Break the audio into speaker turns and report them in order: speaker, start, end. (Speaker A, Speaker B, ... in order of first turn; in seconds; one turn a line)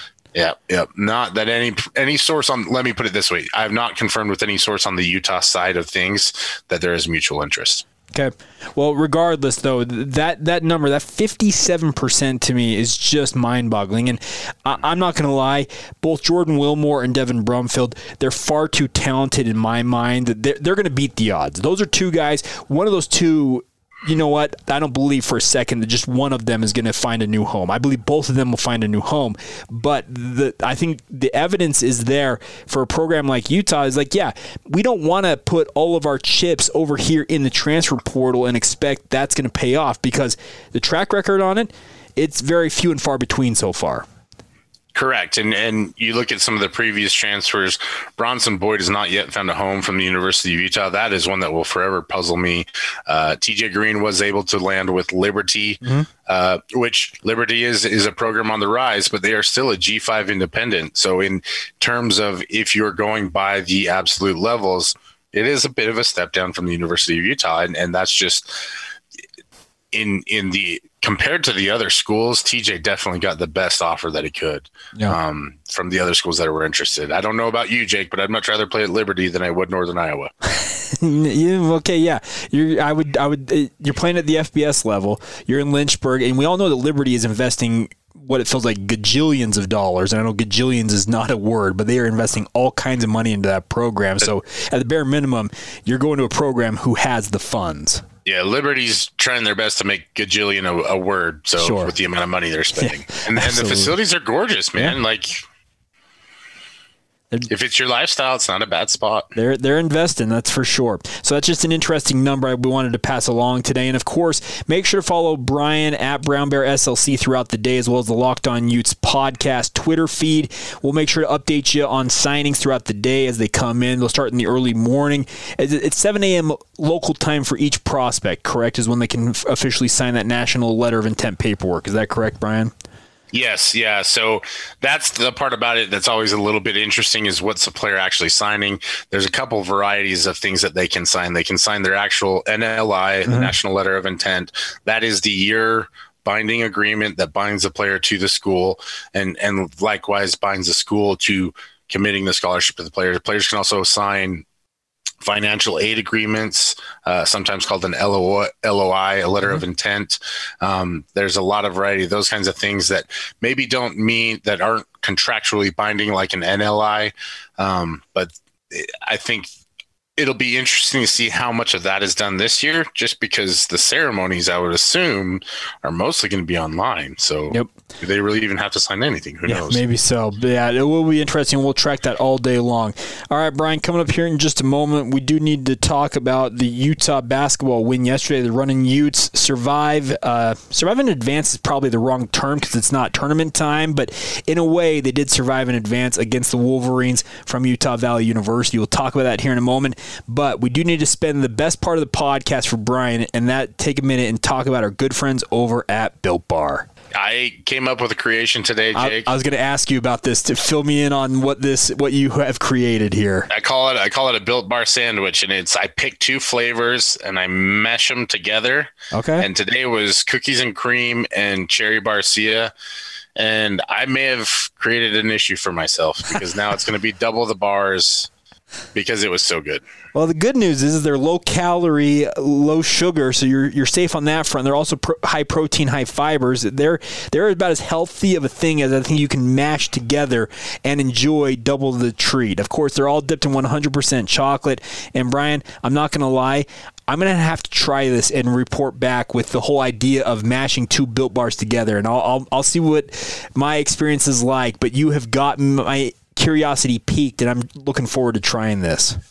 Speaker A: 0.3-7.8
Speaker B: 8.1-44.1
Speaker A: 44.9-68.7
Speaker B: 55.8-56.1
Speaker A: 69.9-80.3
Speaker B: 80.5-98.0
Speaker A: 98.2-105.4
Speaker B: 101.6-101.9
Speaker B: 102.8-103.9
Speaker A: 107.5-109.3
Speaker B: 109.3-132.7
Speaker A: 133.3-154.4
Speaker B: 143.3-143.5
Speaker A: 155.2-169.5
Speaker A: 170.2-179.8
Speaker B: 179.5-206.9
Speaker A: 207.2-209.3
Speaker B: 208.9-213.5
Speaker A: 213.5-222.7
Speaker B: 219.1-219.5
Speaker A: 223.4-228.3
Speaker A: 228.9-229.8
Speaker B: 230.2-259.2